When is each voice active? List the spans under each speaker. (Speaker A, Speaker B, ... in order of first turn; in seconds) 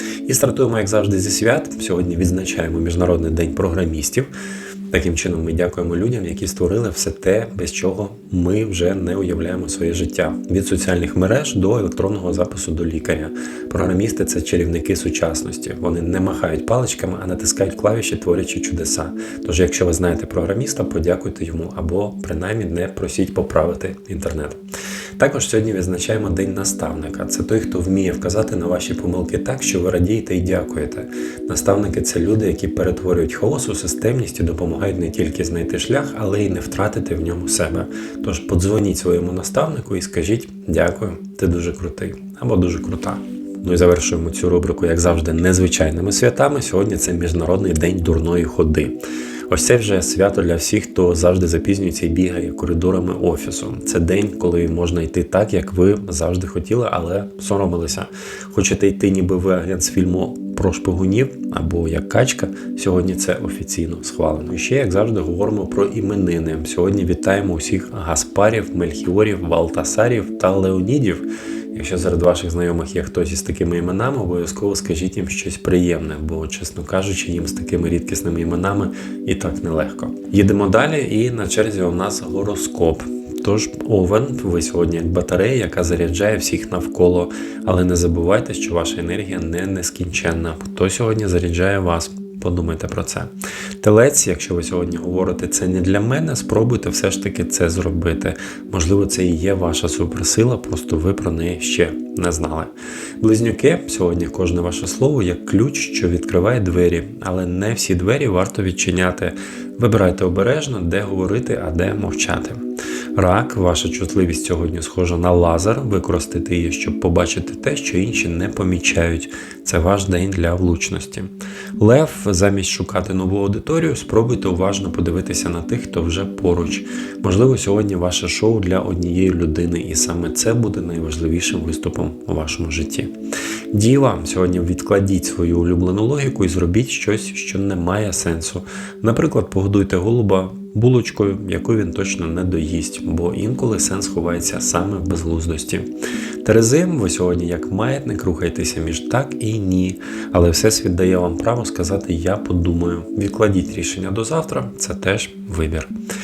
Speaker A: 0.2-4.3, 4.9-24.6, 25.2-112.6, 113.2-133.1, 133.7-145.9, 146.4-155.9